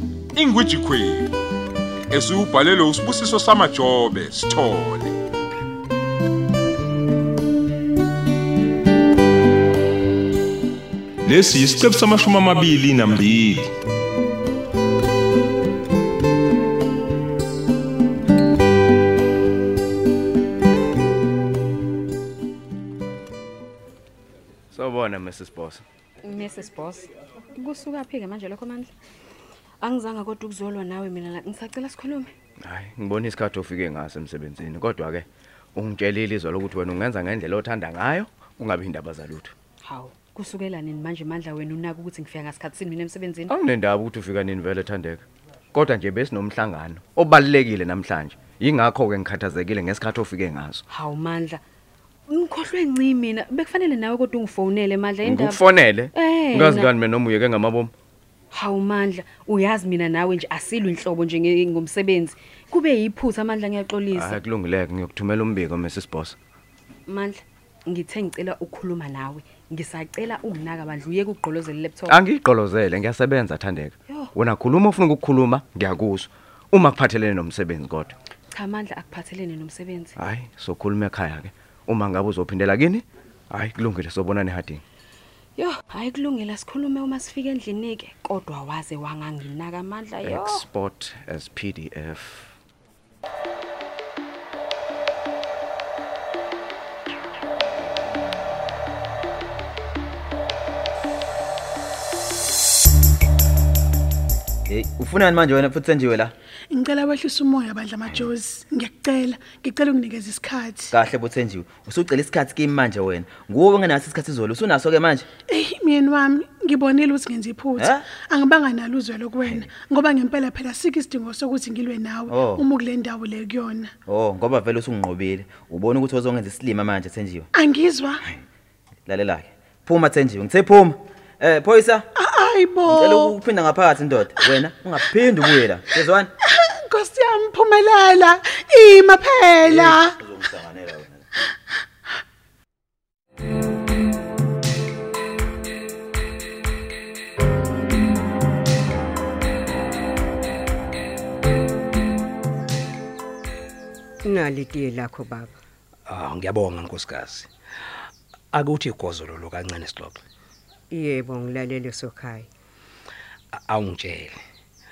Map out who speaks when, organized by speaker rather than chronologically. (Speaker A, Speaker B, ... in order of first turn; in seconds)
Speaker A: 0.3-1.3, 2.1-5.1, 11.2-13.7
Speaker B: 24.7-25.8, 32.6-39.5, 43.5-50.8, 55.2-57.9, 64.1-66.3, 72.1-78.1, 80.2-84.8, 90.2-92.5
Speaker C: 26.2-28.9, 29.8-32.3, 39.8-43.5, 50.9-51.6, 52.3-55.6, 56.1-56.9, 58.5-64.4, 67.0-72.2, 78.5-80.1, 85.6-90.6
Speaker D: 104.7-106.3, 110.9-115.3, 117.8-118.1, 119.4-119.7, 122.3-122.7, 124.0-127.5, 129.1-132.1, 132.8-136.3, 139.6-141.3
Speaker E: 106.7-110.9, 115.5-123.9, 127.5-128.2, 132.2-133.3, 136.4-140.1
Speaker F: 154.2-155.5, 160.9-162.5
Speaker G: 156.1-157.5, 158.5-160.2, 163.5-164.4